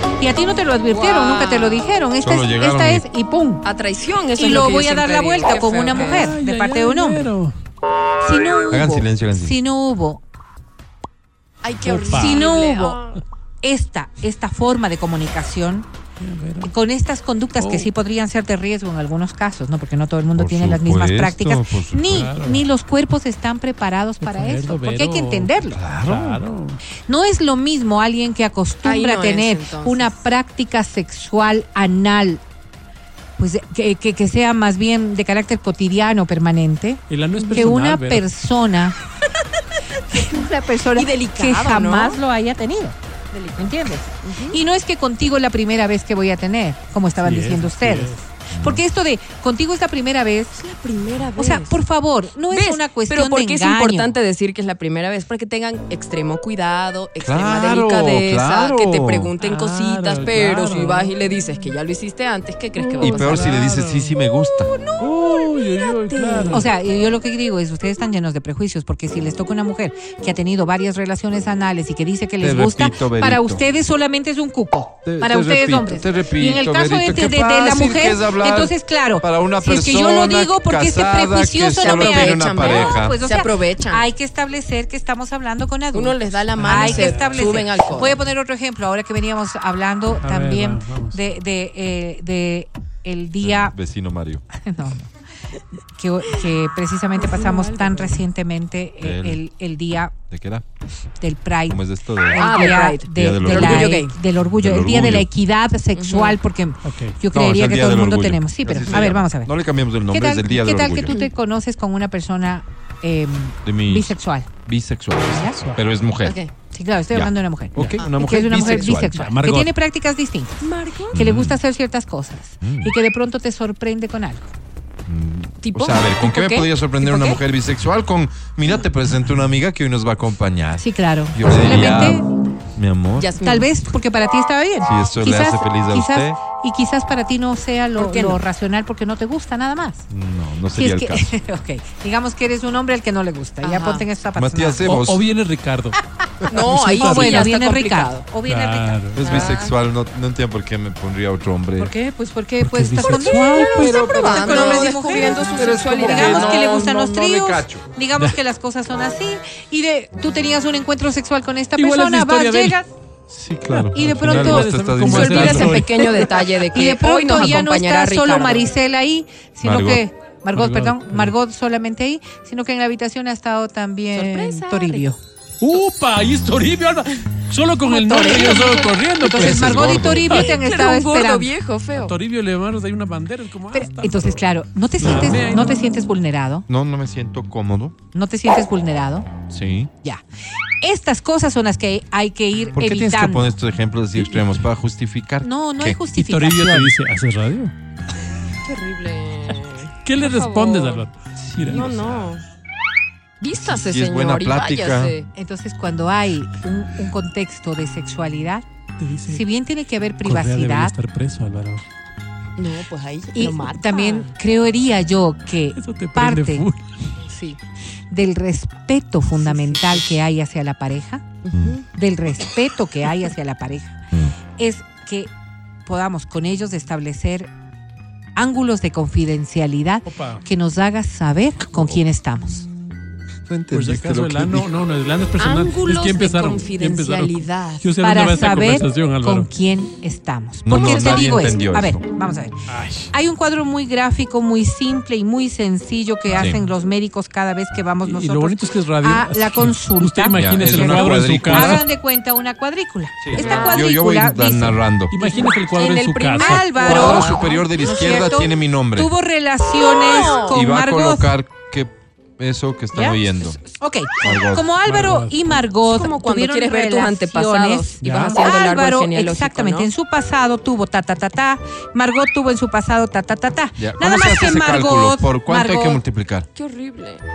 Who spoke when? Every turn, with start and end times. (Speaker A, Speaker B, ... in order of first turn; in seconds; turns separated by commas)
Speaker A: 0.2-3.6, Speaker B: 0.9-1.9, Speaker C: 2.2-3.0, Speaker B: 3.6-6.4, Speaker A: 4.4-7.3, Speaker D: 5.9-7.5, Speaker A: 8.2-10.2, Speaker C: 8.7-9.6, Speaker B: 11.6-13.2, Speaker D: 11.8-12.4, Speaker A: 12.1-13.0, Speaker A: 13.6-15.9, Speaker D: 16.2-16.7, Speaker A: 16.6-25.8, Speaker D: 17.6-17.9, Speaker C: 20.3-22.3, Speaker D: 22.1-22.6, Speaker D: 24.2-25.5, Speaker C: 25.7-26.4, Speaker D: 26.0-26.8, Speaker A: 27.1-32.4, Speaker B: 28.8-30.1, Speaker A: 33.4-37.0, Speaker D: 37.1-38.2, Speaker B: 37.4-37.7, Speaker A: 37.5-39.0, Speaker A: 40.1-42.9, Speaker B: 41.0-42.2, Speaker B: 43.3-43.7, Speaker A: 43.6-50.6, Speaker B: 44.2-44.6, Speaker D: 47.2-48.2, Speaker C: 48.5-48.8, Speaker B: 50.6-51.7, Speaker A: 51.4-54.1, Speaker B: 52.5-63.5, Speaker C: 57.2-59.3, Speaker D: 59.4-61.1, Speaker D: 62.8-64.1, Speaker C: 63.0-64.7, Speaker B: 64.6-65.1, Speaker D: 65.0-66.7, Speaker B: 65.8-66.6, Speaker A: 66.5-93.7, Speaker C: 72.4-73.6, Speaker C: 75.0-83.2, Speaker B: 81.8-84.1, Speaker B: 85.9-88.2, Speaker D: 86.6-87.6, Speaker D: 90.2-91.2, Speaker C: 93.4-94.4, Speaker A: 94.6-95.1, Speaker A: 96.0-100.2, Speaker B: 97.2-98.2, Speaker C: 99.0-99.4, Speaker C: 100.3-100.6, Speaker A: 101.2-109.5, Speaker C: 101.7-102.4, Speaker B: 102.4-104.1, Speaker C: 103.1-105.3, Speaker B: 105.9-106.4, Speaker D: 106.8-107.2, Speaker C: 107.3-111.2, Speaker A: 110.1-114.5, Speaker C: 113.6-116.4, Speaker A: 115.3-115.6, Speaker B: 116.2-116.5, Speaker A: 116.7-124.5, Speaker C: 117.1-119.2, Speaker B: 118.0-119.2, Speaker D: 119.1-119.7, Speaker B: 120.6-121.2, Speaker C: 121.1-121.6, Speaker C: 122.6-122.9, Speaker C: 125.0-132.2, Speaker B: 125.6-127.4, Speaker A: 130.8-132.3, Speaker C: 132.7-133.3, Speaker B: 133.2-133.7, Speaker A: 133.4-140.1, Speaker C: 134.8-136.4, Speaker B: 138.0-138.4, Speaker C: 140.1-141.3, Speaker A: 140.7-144.9, Speaker B: 143.6-144.1, Speaker C: 144.3-145.2, Speaker D: 144.8-146.0, Speaker B: 146.5-148.3, Speaker D: 146.5-147.5, Speaker A: 146.9-149.1, Speaker D: 148.4-149.5, Speaker C: 149.1-151.9, Speaker B: 149.2-149.7, Speaker A: 151.8-162.9, Speaker D: 152.6-154.0, Speaker B: 153.0-156.7, Speaker C: 153.6-157.9, Speaker D: 161.8-162.8, Speaker C: 163.3-165.9, Speaker D: 163.6-166.4, Speaker A: 163.9-164.7, Speaker B: 165.0-168.7, Speaker A: 166.7-175.2, Speaker C: 169.6-170.0, Speaker D: 170.5-171.3, Speaker B: 174.1-175.0, Speaker D: 175.6-180.5, Speaker A: 177.9-181.5, Speaker B: 177.9-178.9, Speaker C: 179.3-180.4, Speaker B: 180.0-182.2, Speaker D: 182.1-184.4, Speaker A: 183.7-186.7, Speaker D: 185.0-185.8, Speaker C: 186.7-187.9, Speaker A: 188.1-189.3, Speaker C: 189.5-189.9, Speaker A: 190.8-193.5, Speaker C: 192.7-196.0, Speaker D: 194.2-194.5, Speaker A: 195.4-196.9, Speaker D: 196.1-197.7, Speaker B: 198.6-201.1, Speaker D: 200.0-201.9, Speaker C: 201.3-202.3, Speaker B: 201.7-202.4, Speaker B: 203.4-205.3, Speaker C: 203.5-205.1, Speaker A: 205.3-208.6, Speaker D: 209.0-209.4, Speaker A: 209.2-210.9, Speaker D: 210.2-211.8, Speaker B: 212.6-214.3, Speaker A: 213.3-216.7, Speaker D: 215.8-217.1, Speaker B: 217.3-217.6, Speaker A: 218.1-221.2, Speaker B: 219.3-220.0, Speaker B: 221.4-221.8, Speaker A: 221.9-224.0, Speaker A: 224.6-225.3, Speaker A: 225.8-227.5, Speaker A: 228.3-232.7, Speaker D: 230.1-230.4, Speaker C: 231.7-232.0, Speaker C: 233.5-234.7, Speaker D: 233.7-239.5, Speaker B: 235.4-237.9, Speaker A: 238.0-242.5, Speaker C: 240.7-242.0, Speaker B: 240.7-241.5, Speaker D: 242.7-243.1, Speaker A: 243.1-255.5, Speaker C: 246.3-246.6, Speaker D: 248.0-251.8, Speaker C: 250.3-251.8, Speaker C: 253.2-255.2, Speaker B: 253.3-253.8, Speaker D: 255.1-257.2, Speaker B: 255.4-257.7, Speaker A: 256.3-261.3, Speaker C: 256.8-259.1, Speaker B: 259.8-260.6, Speaker C: 260.5-263.6, Speaker A: 262.9-276.0, Speaker C: 264.2-264.7, Speaker D: 264.8-265.4, Speaker B: 265.8-269.9, Speaker D: 268.0-268.4, Speaker C: 273.8-276.5, Speaker B: 276.5-277.2